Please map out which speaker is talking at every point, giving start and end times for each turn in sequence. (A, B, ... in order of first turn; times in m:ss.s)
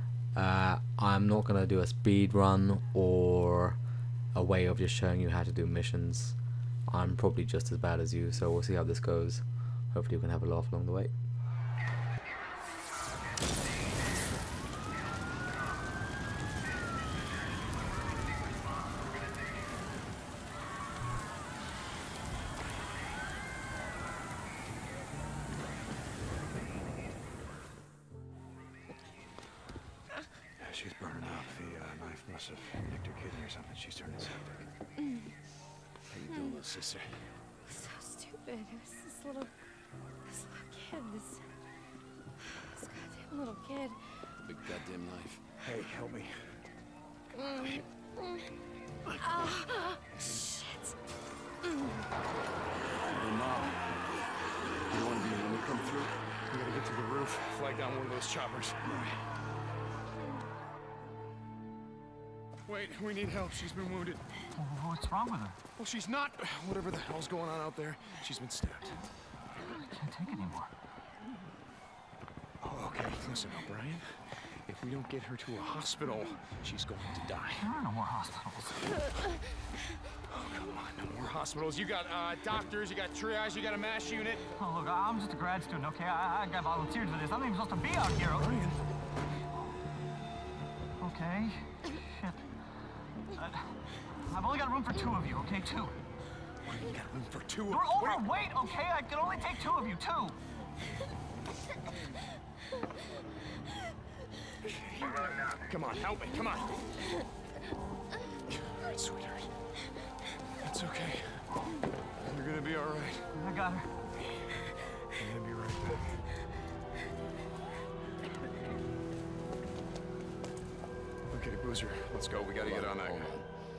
0:00.3-0:03.8 A
0:04.3-0:11.1 A
0:30.6-0:34.7 B
0:35.0-0:35.3 C
0:36.1-0:37.3 D
0:36.3-0:36.6 C
0:37.7-0:39.5 C
0:40.3-0:41.4 C
0:42.7-0:44.0 C
0:44.4-0:45.4 D
0:45.6-0:46.4 B
0:47.4-0:47.7 C
0:47.4-0:47.8 B
0:49.2-0:49.6 B
0:49.2-0:50.9 C
0:51.6-0:52.0 C
0:53.1-0:53.8 D
0:54.9-0:56.1 D
0:56.5-0:59.0 B
1:02.7-1:04.2 B
1:04.5-1:05.6 E
1:05.8-1:09.1 B
1:09.8-1:10.7 E
1:12.6-1:17.7 B
1:17.6-1:18.8 E
1:18.8-1:19.4 B
1:20.3-1:24.5 B
1:24.5-1:28.6 E
1:28.3-1:28.8 B
1:31.0-1:32.4 E
1:33.3-1:35.9 E
1:36.6-1:38.3 B
1:37.7-1:40.4 E
1:44.6-1:46.8 B
1:48.5-1:49.5 B
1:50.6-1:51.6 B
1:52.2-1:53.4 B
1:53.4-1:53.9 E
1:55.0-1:56.2 B
2:01.3-2:03.3 B
2:02.6-2:03.4 D